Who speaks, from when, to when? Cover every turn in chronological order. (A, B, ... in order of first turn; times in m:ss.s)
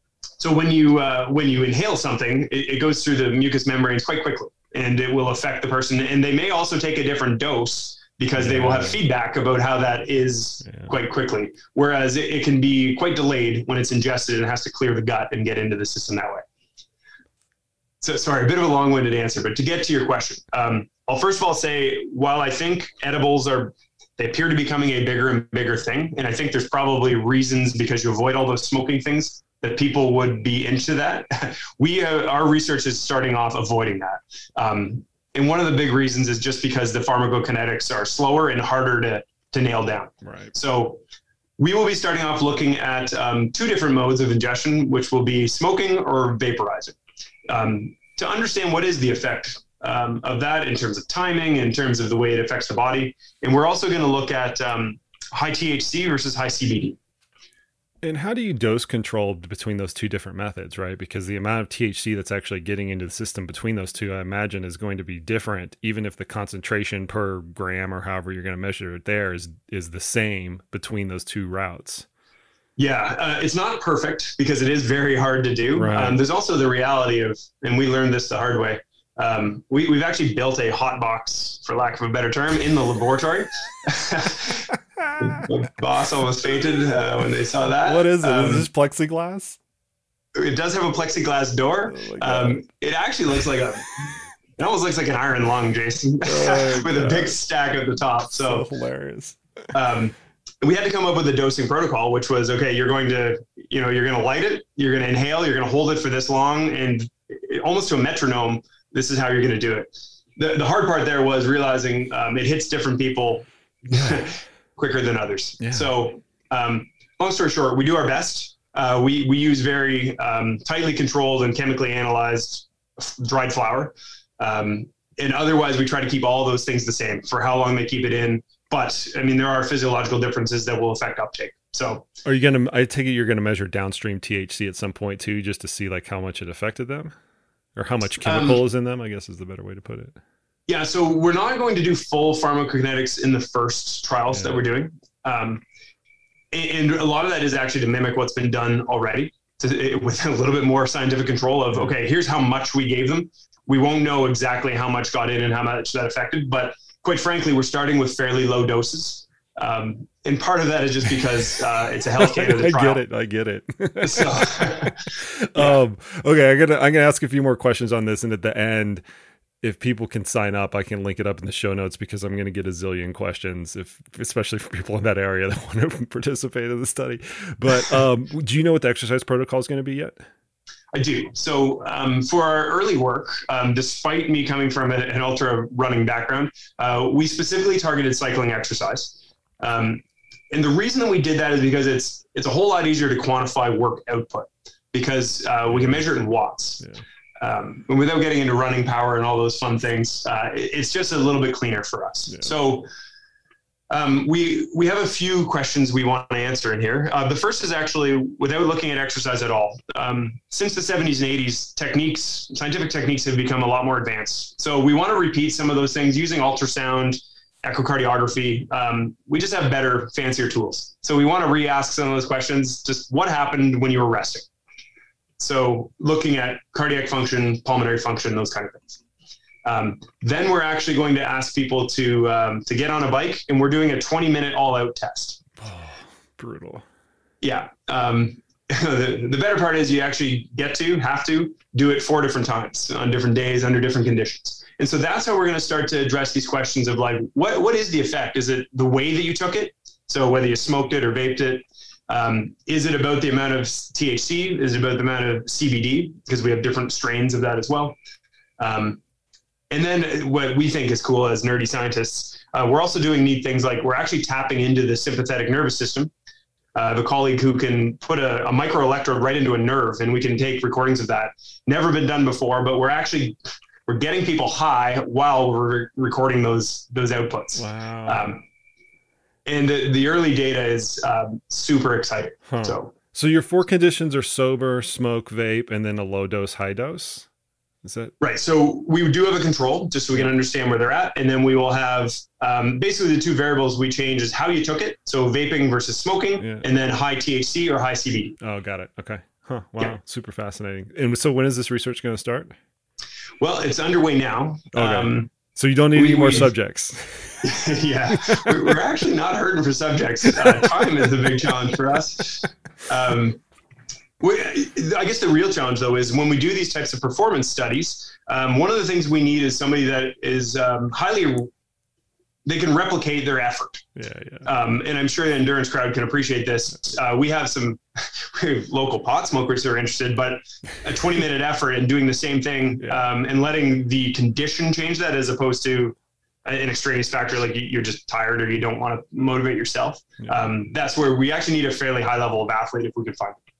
0:00.4-0:16.4 A
0:08.4-0:09.0 B
0:18.0-0:41.0 A
0:40.2-0:40.5 B
0:41.6-0:47.0 A
0:47.5-0:57.0 A
0:58.0-1:12.0 B
1:12.8-1:24.7 A
1:15.7-1:16.2 B
1:25.0-1:25.4 B
1:25.2-1:28.7 A
1:27.8-1:29.6 B
1:30.3-1:38.6 A
1:31.9-1:32.6 B
1:36.2-1:37.4 B
1:38.3-1:39.4 B
1:39.7-2:12.1 A
1:55.6-1:55.9 B
2:12.2-2:17.1 B
2:17.8-2:20.1 B
2:18.2-2:18.6 A
2:20.7-2:25.6 A
2:24.3-2:24.6 B
2:26.5-2:43.0 A
2:42.2-2:49.0 B
2:44.0-2:45.8 A
2:49.6-3:00.2 B
3:00.9-3:16.8 A
3:15.7-3:16.0 B
3:17.4-3:22.9 A
3:23.9-3:44.4 A
3:45.4-3:49.0 A
3:49.6-3:55.4 A
3:55.6-3:56.8 B
3:57.4-4:18.0 A
4:18.6-4:19.0 A
4:19.7-4:26.1 A
4:26.7-4:38.4 A
4:37.6-4:38.2 B
4:39.4-4:42.9 A
4:42.5-4:47.3 B
4:47.8-4:48.1 B
4:48.2-4:58.3 A
4:56.4-4:56.6 B
4:58.4-5:02.5 B
5:03.4-5:05.3 A
5:04.7-5:07.5 B
5:05.9-5:06.5 A
5:07.4-5:13.4 A
5:08.3-5:08.7 B
5:14.2-5:21.5 A
5:22.4-5:23.9 A
5:24.0-5:24.5 B
5:24.4-5:43.4 A